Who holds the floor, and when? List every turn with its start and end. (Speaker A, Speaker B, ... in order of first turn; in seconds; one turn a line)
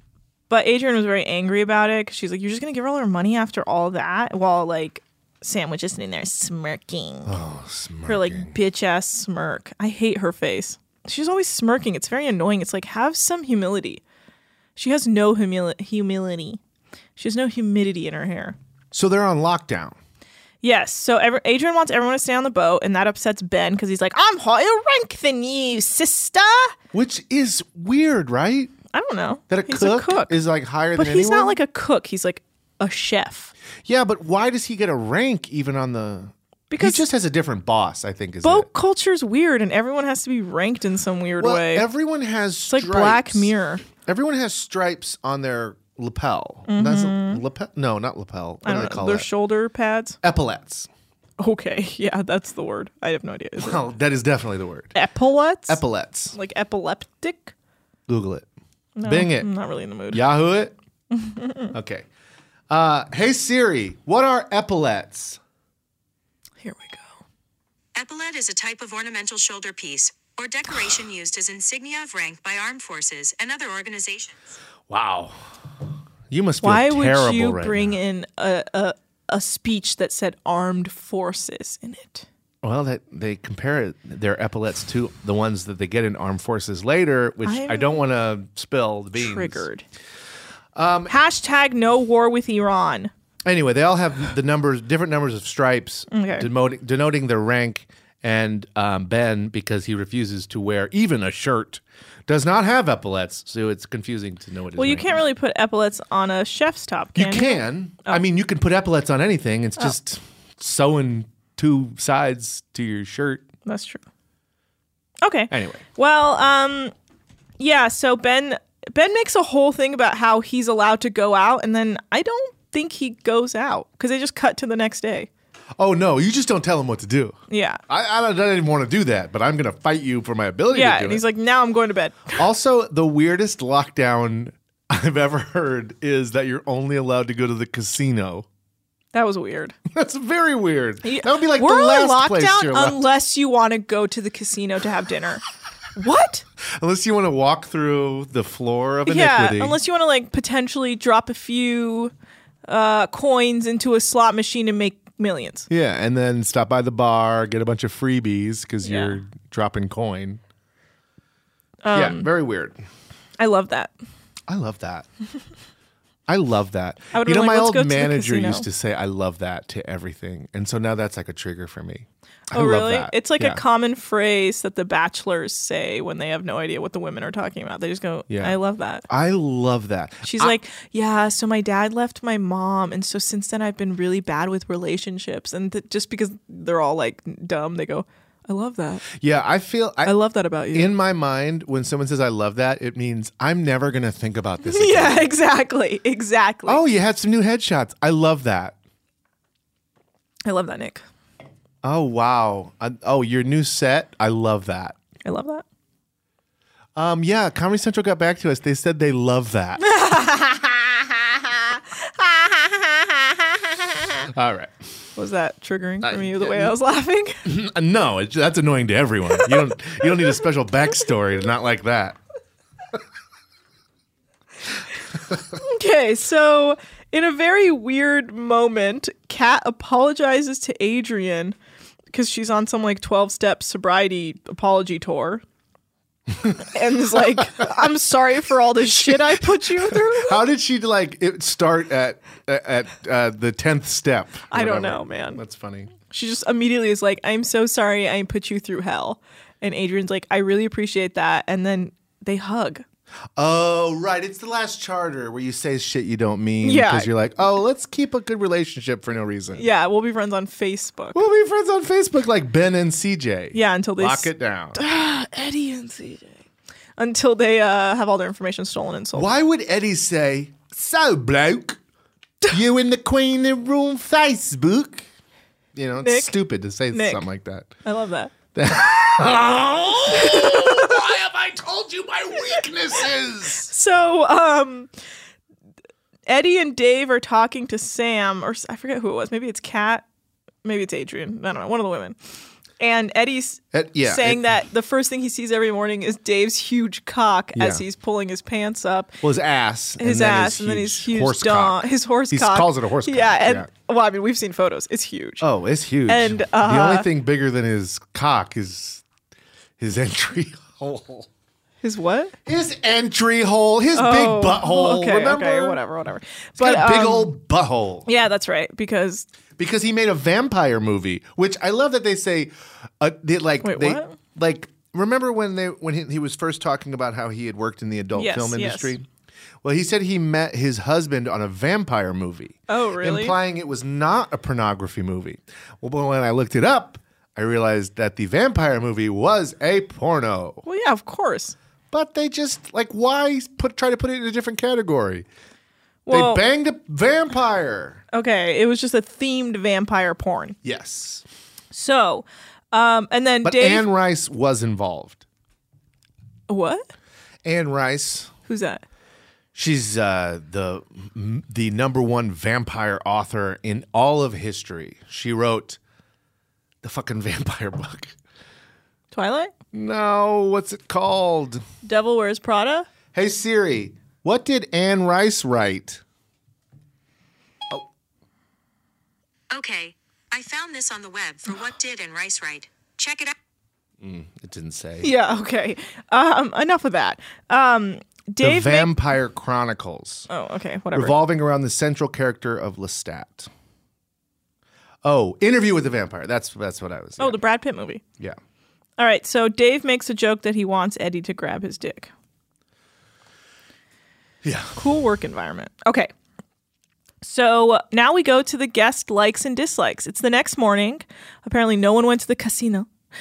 Speaker A: 0.5-7.3
Speaker B: 7.2-8.6
Speaker A: 8.1-14.0
Speaker A: 14.8-16.6
Speaker A: 17.2-18.6
Speaker B: 18.9-20.0
Speaker A: 20.6-26.7
Speaker B: 26.9-28.7
Speaker A: 28.9-30.4
Speaker B: 29.5-31.6
Speaker A: 30.9-33.5
Speaker B: 33.9-38.7
Speaker A: 36.7-37.0
Speaker A: 38.4-41.9
Speaker B: 41.4-49.3
Speaker A: 42.7-43.8
Speaker A: 46.7-47.4
Speaker A: 48.6-50.2
Speaker B: 50.2-50.9
Speaker A: 51.4-53.8
Speaker B: 53.6-55.0
Speaker A: 54.9-55.8
Speaker B: 55.7-56.4
Speaker A: 56.3-57.5
Speaker B: 58.1-58.5
Speaker A: 59.0-60.2
Speaker B: 59.0-59.5
Speaker B: 60.1-60.7
Speaker A: 61.1-61.7
Speaker B: 61.7-62.0
Speaker B: 62.7-65.4
Speaker A: 66.6-67.2
Speaker C: 68.0-74.5
Speaker B: 74.9-75.4
Speaker B: 76.3-78.0
Speaker A: 76.6-82.2
Speaker B: 82.6-89.7
Speaker A: 87.4-88.0
Speaker A: 89.2-89.8
Speaker B: 90.7-91.1
Speaker A: 91.1-93.1
Speaker B: 93.4-105.2
Speaker A: 96.1-96.5
Speaker A: 104.8-108.2
Speaker B: 107.1-113.5
Speaker A: 113.7-114.0
Speaker A: 115.2-116.9
Speaker B: 115.5-115.8
Speaker A: 117.6-125.3
Speaker B: 125.8-127.4
Speaker A: 127.5-127.8
Speaker B: 127.9-131.2
Speaker A: 130.7-132.4
Speaker B: 132.3-138.4
Speaker A: 139.1-139.7
Speaker B: 139.9-143.1
Speaker A: 141.0-145.4
Speaker A: 145.9-146.4
Speaker B: 146.6-149.8
Speaker A: 149.1-152.1
Speaker A: 152.7-155.7
Speaker B: 155.7-160.4
Speaker A: 158.8-159.2
Speaker A: 161.8-162.3
Speaker B: 161.9-162.8
Speaker A: 163.4-163.9
Speaker B: 164.5-165.1
Speaker B: 166.3-173.6
Speaker A: 167.1-168.7
Speaker A: 172.5-179.1
Speaker B: 178.3-180.6
Speaker A: 180.2-189.1
Speaker B: 189.1-190.2
Speaker A: 190.0-190.9
Speaker B: 190.7-195.3
Speaker A: 194.6-196.8
Speaker B: 196.7-198.8
Speaker A: 200.4-201.0
Speaker B: 201.8-205.0
Speaker A: 205.2-205.6
Speaker B: 206.9-209.8
Speaker A: 209.8-211.0
Speaker A: 211.5-213.4
Speaker B: 214.2-214.9
Speaker A: 215.2-217.4
Speaker B: 216.0-216.7
Speaker B: 217.4-222.2
Speaker A: 225.6-231.6
Speaker A: 232.1-235.4
Speaker A: 236.6-240.4
Speaker B: 237.3-237.7
Speaker B: 238.8-245.9
Speaker A: 244.5-245.4
Speaker A: 246.1-252.8
Speaker B: 253.4-259.7
Speaker A: 256.6-257.1
Speaker A: 259.5-261.2
Speaker B: 261.1-264.8
Speaker A: 263.5-266.4
Speaker A: 267.0-269.3
Speaker B: 269.1-271.8
Speaker B: 272.5-275.1
Speaker B: 275.7-277.7
Speaker A: 276.0-276.4
Speaker A: 276.9-277.2
Speaker A: 277.8-278.3
Speaker B: 278.5-283.7
Speaker A: 280.1-281.0
Speaker A: 283.6-284.9
Speaker A: 286.3-290.0
Speaker A: 290.6-292.2
Speaker A: 292.8-299.2
Speaker B: 293.7-294.6
Speaker B: 297.5-297.8
Speaker B: 299.2-303.7
Speaker A: 300.0-305.4
Speaker B: 305.4-309.0
Speaker A: 306.1-307.1
Speaker B: 309.8-311.3
Speaker A: 311.8-312.3
Speaker B: 312.4-315.8
Speaker A: 313.9-317.3
Speaker B: 316.6-318.1
Speaker A: 318.1-319.3
Speaker B: 319.6-329.1
Speaker A: 323.6-324.2
Speaker A: 328.1-328.9
Speaker B: 329.6-340.6
Speaker A: 332.7-333.4
Speaker A: 340.6-341.6
Speaker B: 341.9-345.2
Speaker A: 346.1-346.4
Speaker B: 346.1-348.0
Speaker A: 348.1-350.6
Speaker B: 350.6-351.2
Speaker A: 351.7-353.9
Speaker B: 353.4-355.2
Speaker A: 356.5-356.9
Speaker B: 357.4-358.3
Speaker A: 358.5-358.8
Speaker B: 359.5-365.8
Speaker B: 366.8-368.1
Speaker A: 369.1-369.5
Speaker B: 369.7-371.6
Speaker A: 371.8-372.9
Speaker B: 373.1-376.0
Speaker C: 379.5-383.3
Speaker B: 384.0-385.1
Speaker A: 385.0-388.9
Speaker B: 388.4-390.3
Speaker A: 390.3-391.2
Speaker B: 390.9-393.5
Speaker B: 395.0-397.4
Speaker A: 397.2-398.0
Speaker A: 399.0-402.1
Speaker B: 404.4-404.8
Speaker A: 404.8-406.1
Speaker A: 407.2-412.9